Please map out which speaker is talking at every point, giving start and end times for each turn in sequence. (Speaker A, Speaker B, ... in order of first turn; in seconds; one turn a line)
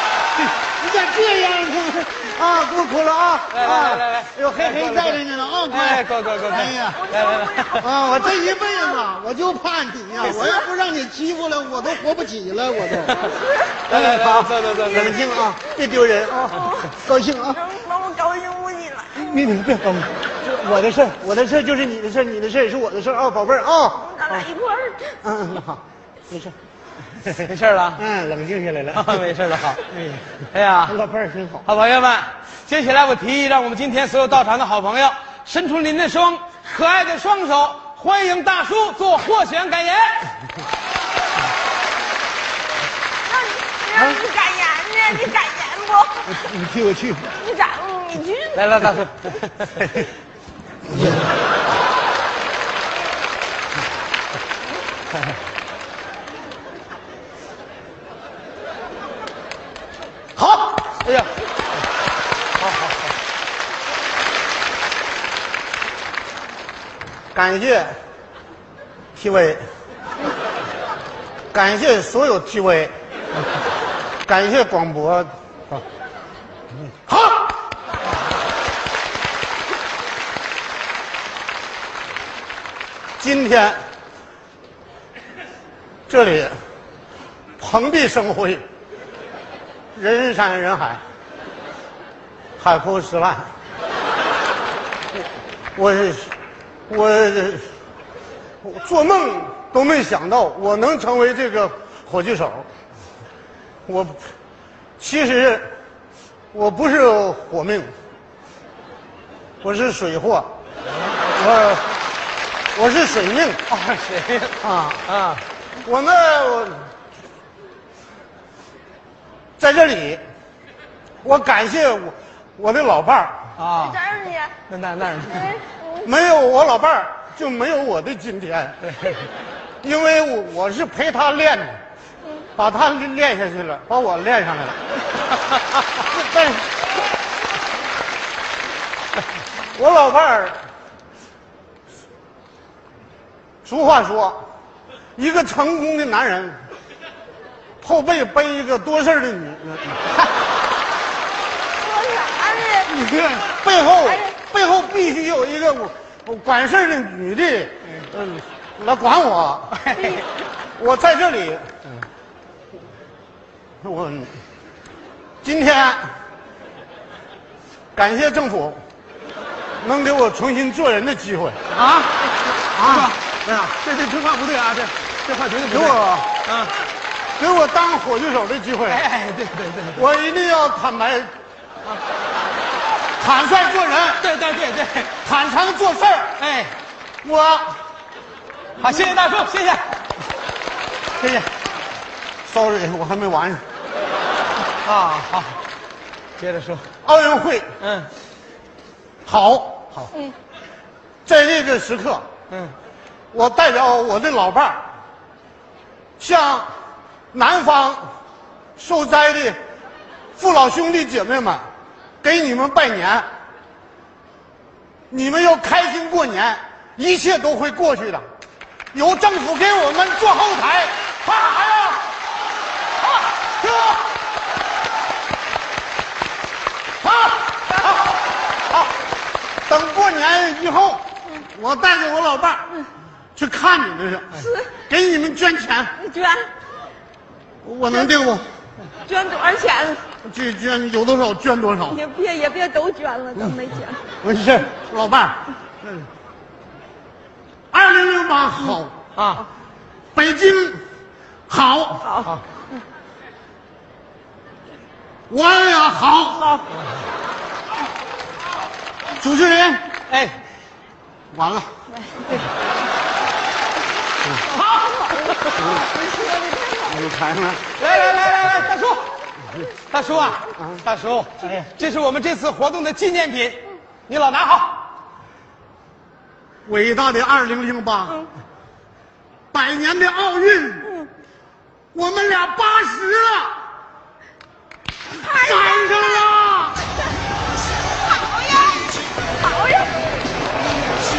Speaker A: 0.4-7.0
Speaker B: 3.5-7.9
Speaker C: 6.8-9.1
Speaker A: 7.8-13.2
Speaker C: 10.2-10.7
Speaker B: 13.0-13.3
Speaker C: 13.0-13.8
Speaker B: 13.9-15.3
Speaker A: 13.9-17.6
Speaker C: 14.8-15.7
Speaker C: 16.4-19.5
Speaker A: 19.1-24.5
Speaker C: 24.0-25.2
Speaker A: 25.2-26.5
Speaker B: 27.3-28.0
Speaker A: 28.0-29.2
Speaker B: 28.9-31.0
Speaker A: 30.9-31.6
Speaker B: 31.6-40.3
Speaker C: 43.2-46.3
Speaker A: 46.3-47.3
Speaker C: 47.4-48.6
Speaker B: 48.5-49.8
Speaker B: 60.4-61.3
Speaker B: 62.6-63.0
Speaker A: 67.3-67.9
Speaker A: 69.2-69.6
Speaker A: 71.5-72.9
Speaker A: 74.2-75.8
Speaker A: 77.0-77.5
Speaker A: 83.2-83.8
Speaker A: 86.1-86.5
Speaker A: 87.6-88.6
Speaker A: 89.9-91.0
Speaker A: 92.6-93.5
Speaker A: 95.7-96.3
Speaker A: 96.9-97.7
Speaker A: 98.6-102.7
Speaker A: 103.8-104.2
Speaker A: 105.0-105.7
Speaker A: 106.5-107.9
Speaker A: 109.6-110.5
Speaker A: 111.3-111.8
Speaker A: 112.7-113.6
Speaker B: 113.7-115.4
Speaker A: 114.6-115.0
Speaker A: 115.8-116.8
Speaker A: 119.6-120.2
Speaker A: 121.2-123.5
Speaker B: 123.6-124.0
Speaker C: 123.7-124.5
Speaker B: 124.7-125.6
Speaker C: 125.2-126.1
Speaker A: 126.0-128.8
Speaker B: 128.9-129.2
Speaker A: 129.8-131.8
Speaker A: 132.6-134.8
Speaker A: 136.0-136.6
Speaker A: 139.7-140.6
Speaker A: 143.6-144.4
Speaker A: 145.2-146.6
Speaker A: 147.8-150.2
Speaker C: 151.8-152.9
Speaker A: 152.9-159.8
Speaker C: 154.0-154.3
Speaker B: 159.8-160.2
Speaker C: 159.9-160.2
Speaker A: 160.8-161.8
Speaker A: 163.8-164.3
Speaker A: 165.4-166.1
Speaker A: 167.9-168.8
Speaker A: 169.8-171.6
Speaker B: 171.7-176.7
Speaker A: 172.7-173.1
Speaker A: 175.7-176.3
Speaker A: 177.4-179.0
Speaker B: 178.9-180.0
Speaker A: 179.9-181.3
Speaker A: 183.2-184.2
Speaker B: 184.2-185.2
Speaker A: 185.2-186.4
Speaker B: 186.4-186.7
Speaker A: 187.2-187.8
Speaker B: 188.8-189.8
Speaker A: 191.2-191.5
Speaker A: 192.4-193.6
Speaker B: 194.8-195.6
Speaker B: 196.4-196.8
Speaker A: 197.0-197.7
Speaker B: 197.8-198.1
Speaker A: 199.2-200.1
Speaker A: 201.2-202.2
Speaker A: 203.3-204.8
Speaker A: 206.2-206.7
Speaker A: 207.3-208.1
Speaker A: 208.8-209.6
Speaker A: 210.4-211.7
Speaker A: 212.2-213.2
Speaker A: 215.1-218.3
Speaker A: 218.9-222.0
Speaker A: 223.6-223.9
Speaker A: 227.0-227.9
Speaker A: 229.7-232.7
Speaker A: 233.3-235.9
Speaker C: 234.3-234.7
Speaker C: 236.0-236.5
Speaker A: 237.6-238.4
Speaker C: 239.0-240.0
Speaker A: 240.2-242.0
Speaker C: 241.9-244.0
Speaker A: 244.2-246.1
Speaker A: 247.7-249.0
Speaker B: 249.2-249.4
Speaker A: 250.1-250.8
Speaker A: 251.5-252.2
Speaker C: 252.0-252.3
Speaker A: 255.3-256.6
Speaker C: 256.3-256.6
Speaker A: 259.2-259.9
Speaker B: 260.1-260.4
Speaker A: 261.3-261.7
Speaker C: 264.6-267.0
Speaker A: 266.9-267.7
Speaker B: 267.7-269.1
Speaker B: 269.9-274.9
Speaker A: 276.6-278.3
Speaker A: 279.5-280.9
Speaker A: 281.9-283.5
Speaker C: 285.1-286.3
Speaker A: 285.4-286.8
Speaker C: 287.9-290.1